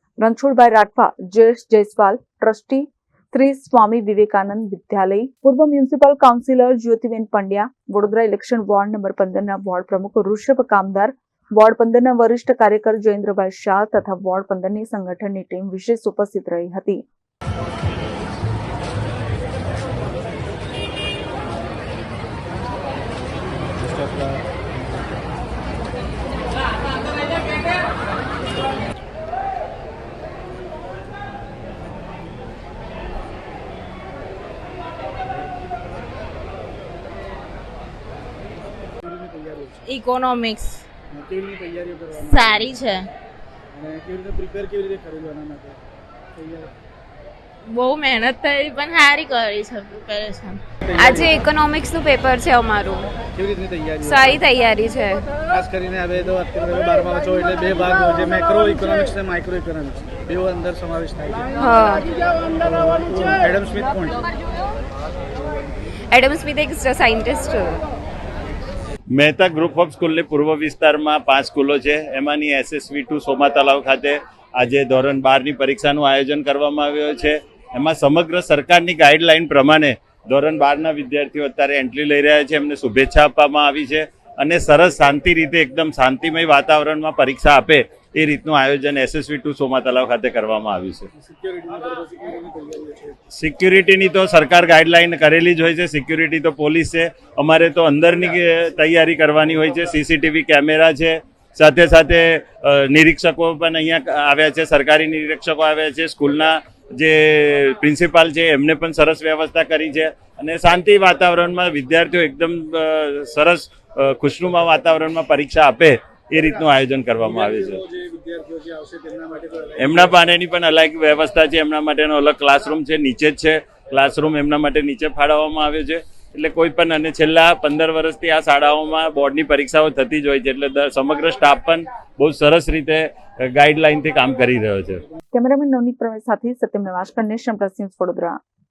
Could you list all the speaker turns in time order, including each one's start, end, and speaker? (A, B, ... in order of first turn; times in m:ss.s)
0:00.2-0:17.0 A
0:39.0-0:39.8 B
0:39.9-0:40.8 C
0:41.1-0:42.8 B
0:42.2-0:43.1 C
0:43.7-0:45.8 B
0:46.4-0:46.7 B
0:47.7-0:50.6 C
0:50.8-0:51.5 B
0:51.0-0:53.2 D
0:53.2-0:54.4 B
0:54.0-0:55.3 D
0:55.4-1:04.2 B
1:01.6-1:02.0 D
1:06.1-1:07.8 D
1:09.1-1:31.1 E
1:31.2-1:33.2 B
1:33.3-1:57.8 E
1:57.3-1:59.9 B
1:59.8-2:15.0 E
2:15.3-2:18.4 A